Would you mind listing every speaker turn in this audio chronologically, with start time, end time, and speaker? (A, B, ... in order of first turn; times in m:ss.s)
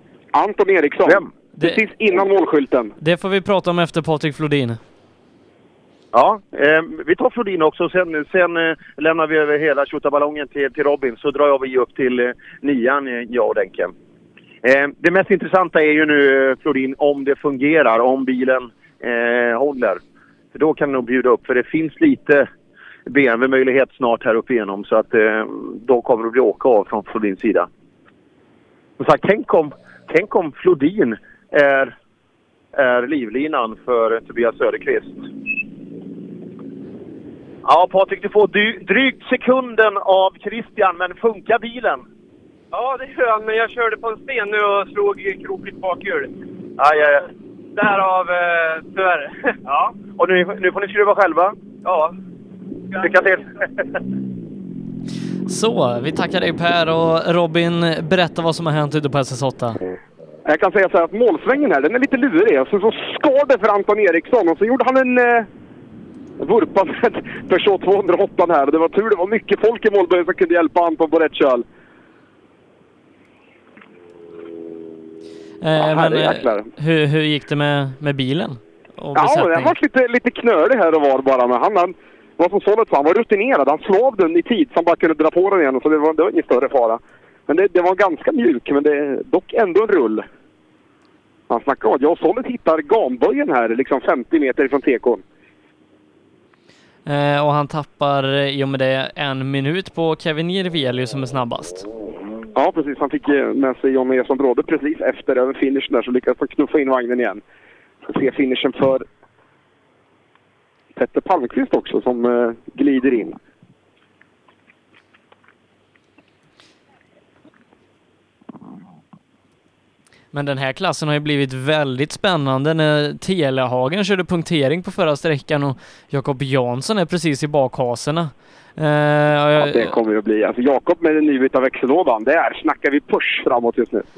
0:00.3-0:02.9 A
0:01.0-0:01.3 B
0:01.6-0:01.8 C
0:03.0-0:04.8 C
0:06.1-0:13.9 B
0:14.6-0:20.0 B
0:20.5-0:22.5 B
0:23.1-0:27.7 B
0:29.0-0:31.9 B
0:32.8-0:35.3 B
0:37.6-0:42.0 B
0:42.7-0:46.3 D
0:46.8-0:47.2 B
0:47.8-0:48.3 D
0:49.7-0:51.6 B
0:51.8-0:52.1 D
0:53.1-0:53.4 B
0:55.5-0:59.8 C
1:00.4-1:05.5 A
1:06.4-1:11.6 A
1:15.6-1:19.7 C
1:15.8-1:16.7 A
1:19.1-1:30.2 A
1:31.5-1:35.2 A
1:37.0-1:41.8 C
1:42.5-1:47.4 A
1:48.0-1:49.0 A
1:50.9-1:53.4 A
2:00.3-2:09.9 C
2:09.6-2:14.0 A